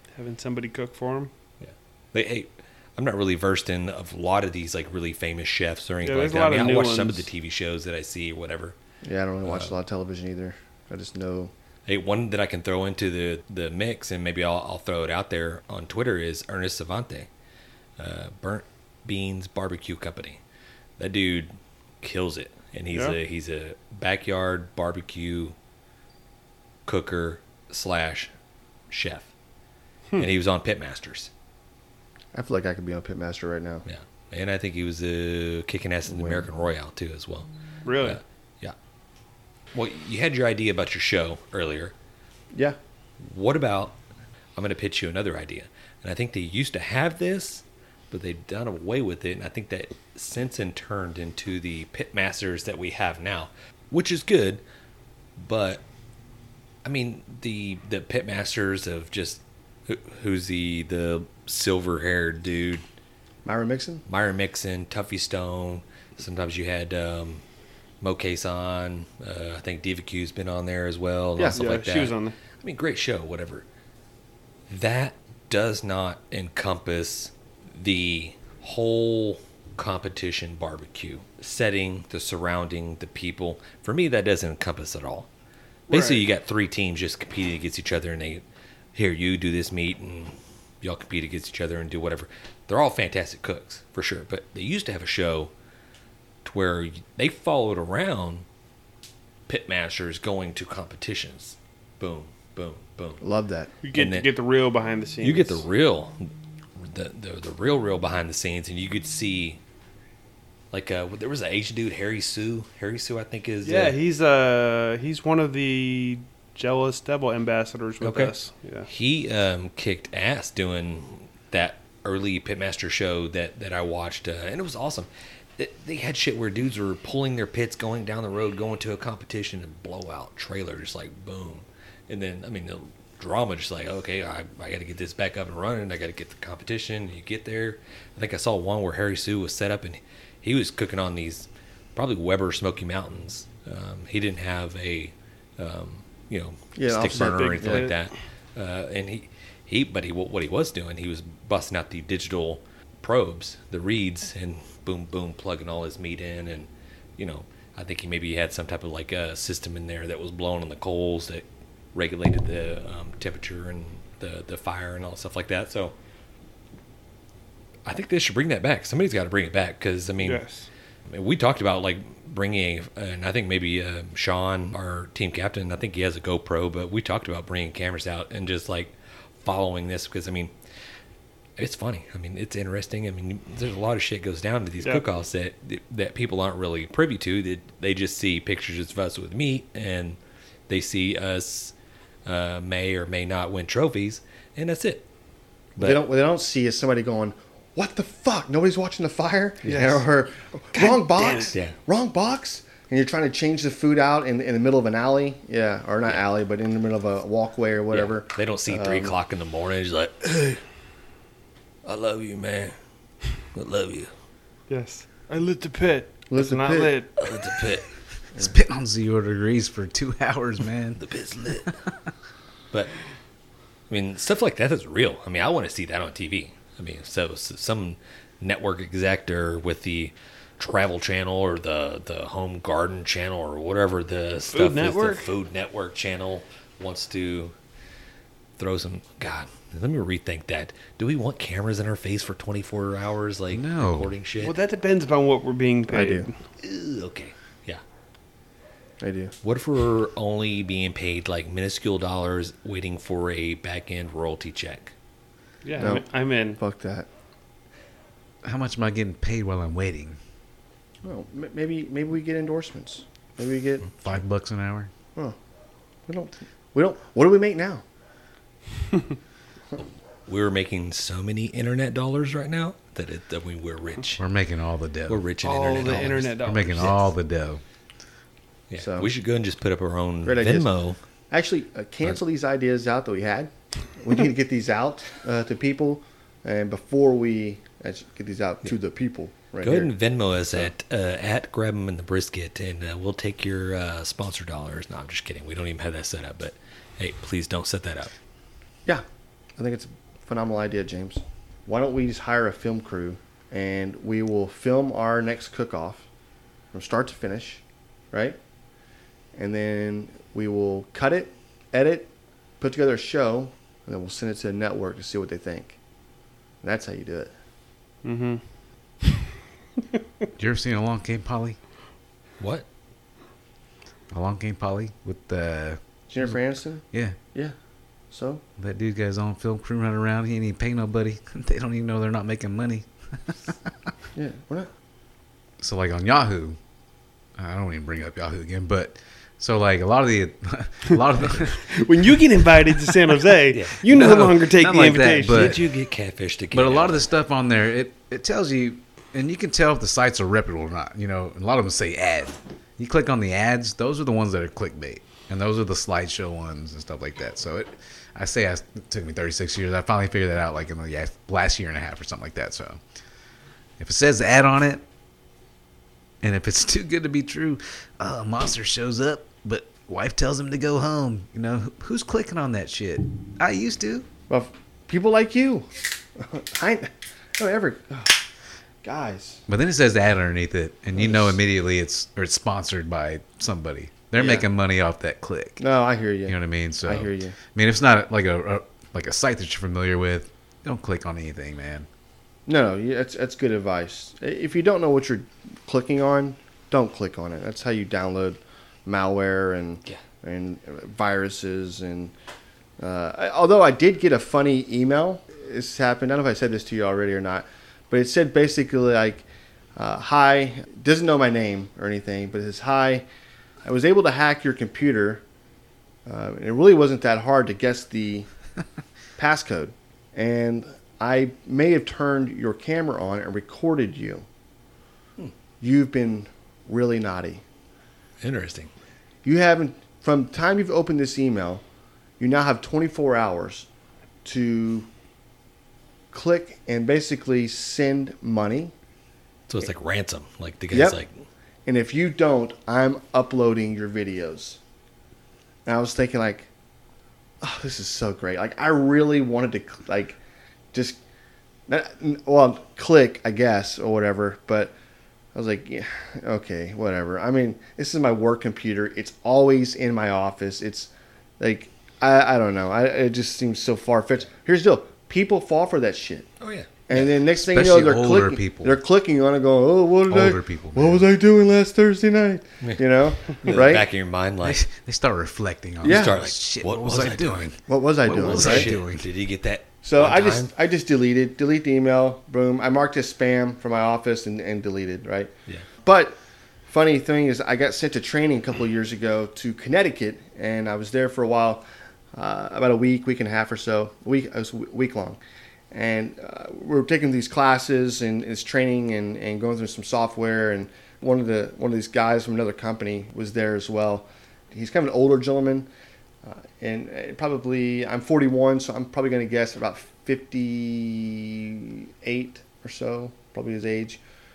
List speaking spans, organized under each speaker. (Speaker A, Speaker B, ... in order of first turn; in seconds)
Speaker A: 0.2-1.3, 6.0-7.3, 37.9-38.2, 71.5-72.4, 85.9-86.2, 103.8-105.6, 113.6-118.9, 147.1-148.0, 170.2-170.7, 199.7-200.1, 200.8-201.6, 214.7-217.3, 234.5-235.3, 244.4-246.4, 255.7-256.6, 275.4-277.0, 318.0-318.4, 341.6-345.6
Speaker B: 1.6-8.8, 9.4-9.7, 11.9-17.3, 18.0-20.4, 21.0-21.5, 22.0-25.6, 26.9-28.3, 28.9-29.3, 30.2-31.3, 33.9-37.5, 38.0-38.8, 39.7-41.9, 43.2-44.0, 44.6-54.6, 55.4-55.8, 56.8-62.8, 64.1-67.4, 68.0-73.7, 74.7-85.3, 85.9-88.4, 89.0-95.5, 96.5-98.5, 99.5-103.2, 103.9-104.3, 105.2-109.6, 110.7-114.0, 118.0-118.3, 118.9-165.9, 167.8-170.4, 171.1-180.5, 181.6-190.2, 190.7-191.8, 192.3-195.1, 195.8-196.0, 207.9-210.6, 211.8-212.7, 213.5-214.1, 217.2-217.8, 221.0-221.8, 223.9-237.5, 238.6-244.6, 246.6-247.8, 249.4-254.9, 269.8-274.2, 275.1-277.1, 278.7-281.0, 289.6-298.1, 322.4-322.6, 343.5-343.8, 345.3-347.1, 428.2-428.7, 439.5-441.1, 466.4-466.7, 472.6-474.6, 475.8-477.5, 478.1-480.5
Speaker C: 9.0-11.5, 32.3-33.8, 36.1-36.5, 63.5-64.0, 71.4-71.7, 103.2-103.7, 146.8-147.9, 195.8-209.2, 216.3-217.0, 245.9-246.3, 249.0-249.3, 255.8-256.1, 256.6-257.1, 261.0-263.9, 266.1-267.8, 278.8-279.1, 280.2-280.7, 281.3-289.9, 299.6-306.1, 306.7-308.4, 309.4-315.8, 316.6-317.3, 326.1-327.6, 328.1-328.4, 334.1-334.7, 374.3-378.2, 378.8-379.4, 381.0-381.4, 384.2-384.5, 385.6-387.4, 392.5-402.1, 402.8-409.2, 409.8-413.1, 413.6-415.2, 416.1-418.3, 419.2-424.3, 425.6-427.4, 429.2-431.6, 432.2-433.7, 434.2-434.9, 436.1-438.7, 440.7-441.0, 441.7-444.6, 445.7-446.5, 447.4-450.2, 450.7-451.0, 451.7-454.7, 455.3-466.3, 466.9-473.9, 475.8-476.1, 477.7-478.7, 479.8-485.3, 485.8-495.2, 495.7-505.7, 506.2-514.0
Speaker D: 218.3-221.0, 243.5-244.1, 258.4-260.2, 264.0-264.9, 274.2-275.2, 275.8-277.6, 320.4-321.6, 324.1-326.4, 326.9-327.2, 328.6-333.5, 335.6-336.6, 337.4-341.7, 343.9-345.6, 346.5-362.8, 363.8-364.8, 366.2-374.1, 379.5-385.6, 386.3-391.9, 466.9-468.8, 470.1-471.1, 474.4-479.1